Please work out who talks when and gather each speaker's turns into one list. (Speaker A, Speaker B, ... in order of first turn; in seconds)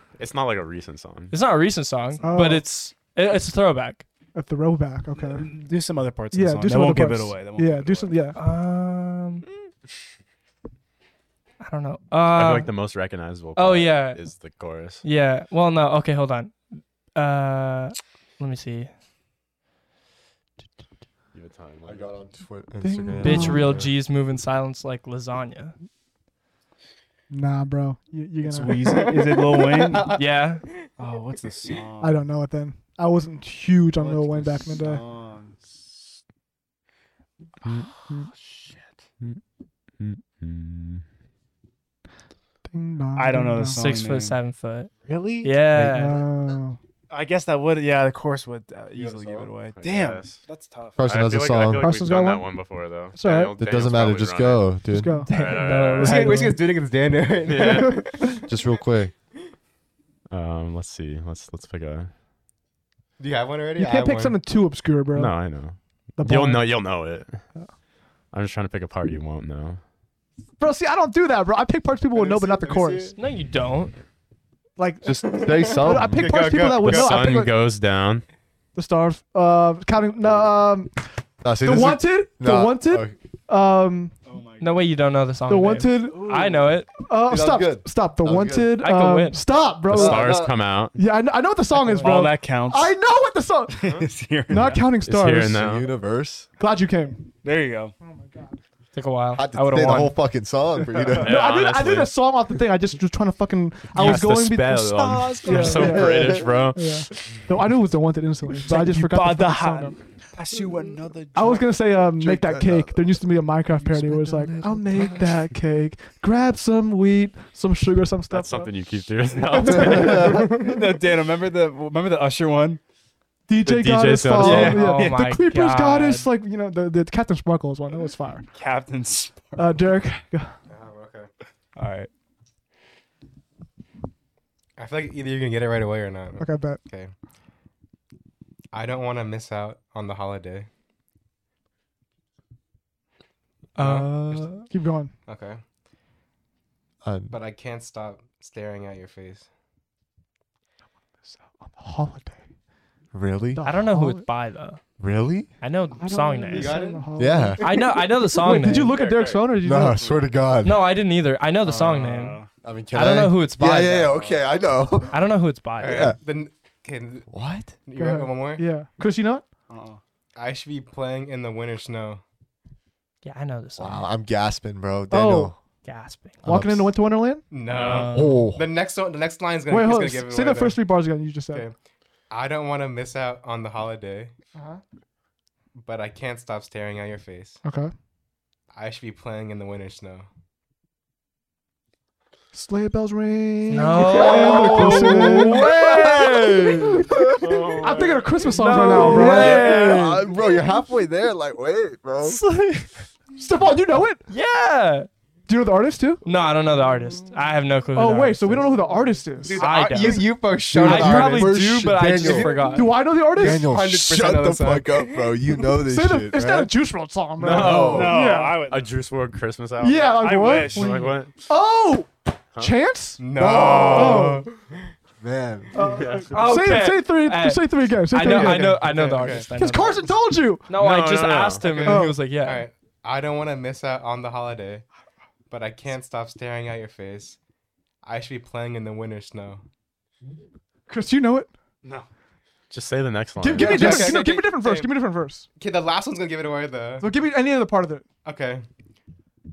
Speaker A: 0.2-1.4, 12.3-15.0, 21.3-22.1, 40.0-41.0, 49.8-50.4, 51.0-54.8, 55.3-56.4, 57.5-58.0, 60.3-62.1, 65.2-67.5, 68.3-69.8, 76.8-78.2, 89.9-91.0, 95.0-95.9, 101.2-102.2, 103.9-107.4, 118.3-120.4, 123.6-124.8, 177.7-178.1, 197.3-198.5, 217.4-221.3, 223.5-223.8, 225.9-226.4, 230.7-231.7, 242.7-244.1
Speaker B: 1.3-4.0, 8.3-9.5, 11.6-12.7, 13.6-14.2, 15.0-16.6, 17.1-18.9, 23.2-25.8, 30.1-30.6, 43.7-44.9, 45.4-46.3, 55.0-56.6, 73.2-74.0, 84.6-86.9, 88.7-89.5, 91.9-92.2, 98.9-100.2, 124.4-126.3, 153.6-154.8, 155.6-156.9, 157.6-159.0, 160.6-164.2, 165.1-166.1, 173.2-174.1, 175.8-176.4, 193.7-197.1, 198.4-200.3, 202.2-203.1, 204.3-205.1, 206.2-208.7, 209.6-213.2, 226.3-230.2, 230.7-232.7
Speaker C: 2.2-2.7, 4.3-5.5, 6.3-8.4, 22.8-23.6, 27.3-29.1, 32.0-35.0, 42.7-43.8, 45.8-46.8, 51.8-52.5, 53.1-53.6, 54.9-55.3, 63.8-65.6, 66.2-66.7, 70.6-73.1, 74.8-77.5, 78.8-81.0, 81.6-84.1, 85.5-86.2, 87.0-93.8, 94.5-95.6, 96.6-97.3, 98.0-98.6, 101.2-110.0, 111.3-118.7, 119.5-120.6, 123.5-128.5, 129.6-130.5, 136.4-136.8, 143.8-145.1, 151.3-152.4, 153.6-154.3, 155.9-160.1, 168.0-169.4, 175.1-175.6, 176.4-177.4, 179.7-181.7, 184.6-184.8, 187.6-187.9, 192.5-196.1, 196.9-199.8, 203.4-204.2, 205.5-206.2, 207.9-209.6, 212.7-213.7, 215.9-218.6, 219.8-223.2, 223.8-224.5, 225.7-228.8, 229.6-230.7, 231.8-232.2, 240.9-241.5, 243.4-245.5, 247.0-248.1
Speaker D: 5.2-8.2, 28.4-30.1, 31.0-32.2, 34.0-35.6, 38.1-38.9, 43.2-44.4, 45.1-45.9, 47.1-51.0, 84.3-84.9, 86.0-86.8, 91.9-93.0, 93.7-94.9, 97.4-97.9, 104.0-104.3, 104.8-106.1, 108.6-111.8, 120.1-122.8, 124.4-125.2, 128.5-129.8, 131.8-132.1, 161.9-162.5, 169.7-170.0, 217.8-218.9, 220.1-221.1
Speaker E: 21.9-23.9, 51.0-52.0, 53.6-55.1, 58.5-59.1, 75.0-76.3, 81.4-83.2, 87.2-88.8, 89.9-90.5, 95.5-96.5, 99.3-101.4, 105.9-106.6, 112.2-113.2, 113.8-115.3, 119.7-120.4, 147.0-147.3, 153.1-153.6, 155.0-155.5, 157.2-157.7, 159.6-160.9, 162.6-165.2, 165.8-166.2, 167.3-167.7, 173.8-175.6, 176.4-176.9, 177.9-178.7, 194.5-195.0, 195.6-197.2, 199.0-202.4, 210.7-212.7, 213.3-216.7, 217.5-218.1, 223.3-224.3, 225.2-226.2
Speaker F: 28.9-30.9, 56.0-58.5, 63.2-64.4, 72.1-73.2, 75.3-77.3, 120.2-120.7, 130.7-131.3, 134.8-137.1, 138.7-140.7, 143.8-144.5, 145.3-145.6, 147.3-149.5, 156.5-157.1, 161.6-162.1, 165.8-167.3, 167.8-168.6, 170.3-172.2, 177.5-180.8, 182.3-184.3, 185.8-187.6, 188.7-190.3, 194.1-194.9, 209.6-211.6, 212.2-212.6, 213.2-215.3, 223.2-224.9, 228.2-229.5, 231.6-234.8, 235.5-237.4, 238.0-239.6, 243.5-244.9, 245.6-247.1, 248.2-248.7